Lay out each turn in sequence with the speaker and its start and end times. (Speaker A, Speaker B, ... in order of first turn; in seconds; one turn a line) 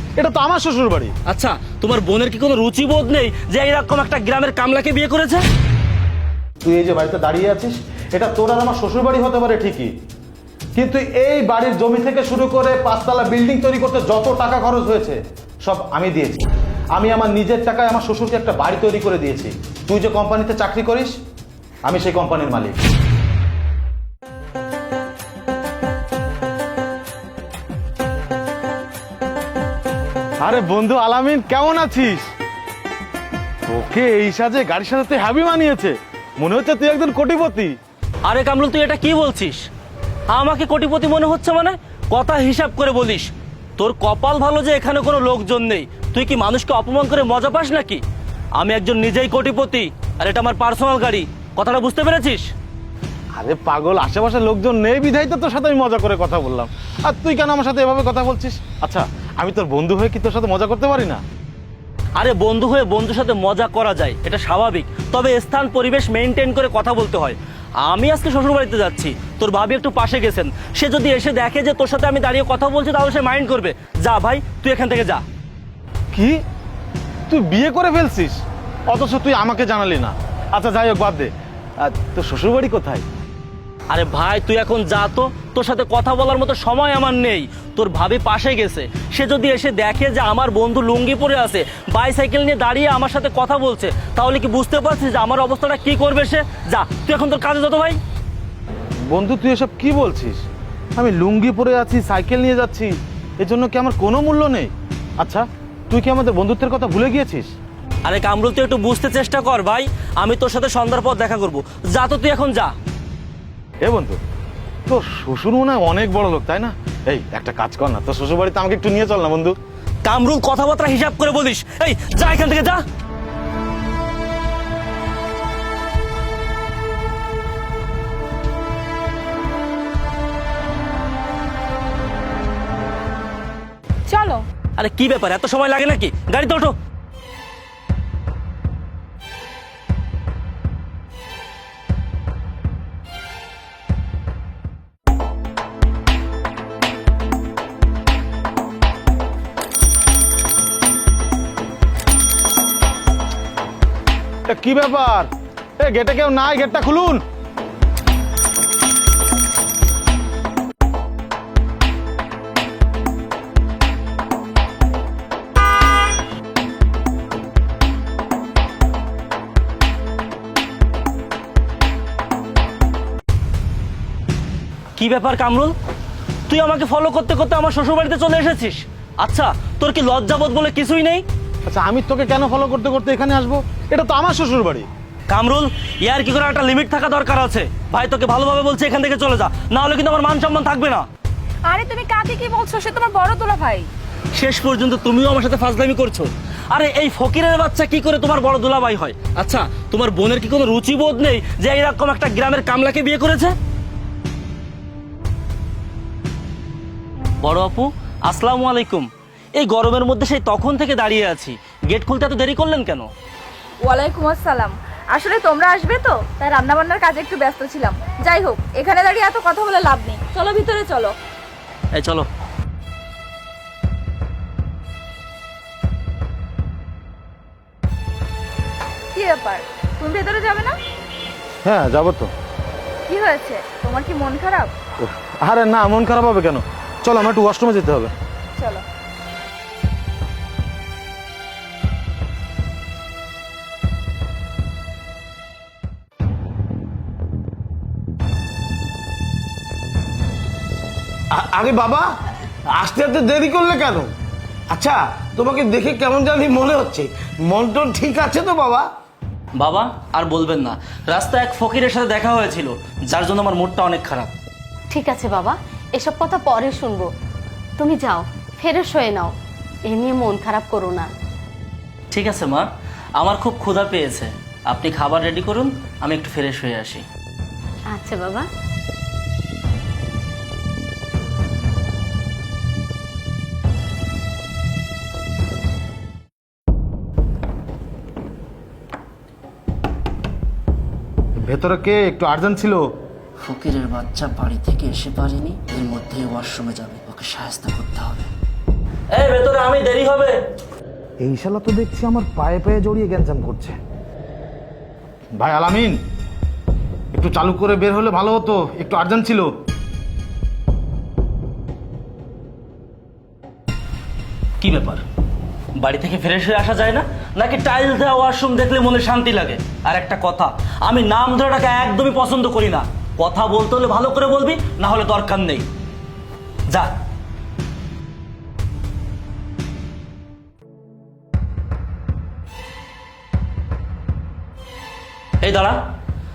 Speaker A: 0.2-1.1
Speaker B: 1.3-5.4
Speaker A: 6.6-9.9
Speaker A: 10.7-16.4
Speaker A: 16.9-21.1
Speaker A: 21.8-22.8
Speaker A: 30.4-32.3
Speaker A: 33.7-37.7
Speaker B: 38.2-39.7
Speaker B: 40.3-48.0
Speaker B: 48.6-52.5
Speaker A: 53.4-61.2
Speaker B: 62.1-75.2
Speaker A: 77.3-83.0
Speaker B: 83.9-98.0
Speaker A: 99.1-100.4
Speaker A: 100.9-107.5
Speaker B: 108.0-112.7
Speaker A: 113.8-114.2
Speaker A: 114.9-119.6
Speaker B: 120.0-122.8
Speaker C: 134.1-134.4
Speaker B: 134.8-136.7
Speaker A: 154.5-157.2
Speaker B: 174.9-175.7
Speaker B: 176.5-181.2
Speaker A: 181.7-184.9
Speaker B: 185.3-191.1
Speaker C: 191.7-193.9
Speaker B: 194.3-203.5
Speaker B: 207.4-213.1
Speaker C: 213.8-221.1
Speaker B: 221.9-222.3
Speaker C: 229.1-230.8
Speaker A: 231.6-232.3
Speaker C: 233.1-234.7
Speaker A: 235.0-238.1
Speaker C: 238.6-238.8
Speaker D: 251.3-252.1
Speaker D: 252.7-254.1
Speaker D: 254.7-258.9
Speaker B: 259.6-264.3
Speaker E: 264.9-267.1
Speaker E: 267.8-269.3
Speaker E: 269.9-271.1
Speaker B: 272.1-277.0
Speaker E: 277.9-278.5
Speaker A: 291.4-292.9
Speaker B: 293.4-298.3
Speaker B: 299.1-300.4
Speaker A: 301.2-303.8
Speaker A: 305.3-306.0
Speaker A: 307.1-309.5
Speaker B: 314.6-315.0
Speaker B: 315.8-325.7
Speaker B: 326.7-326.9
Speaker B: 335.4-335.8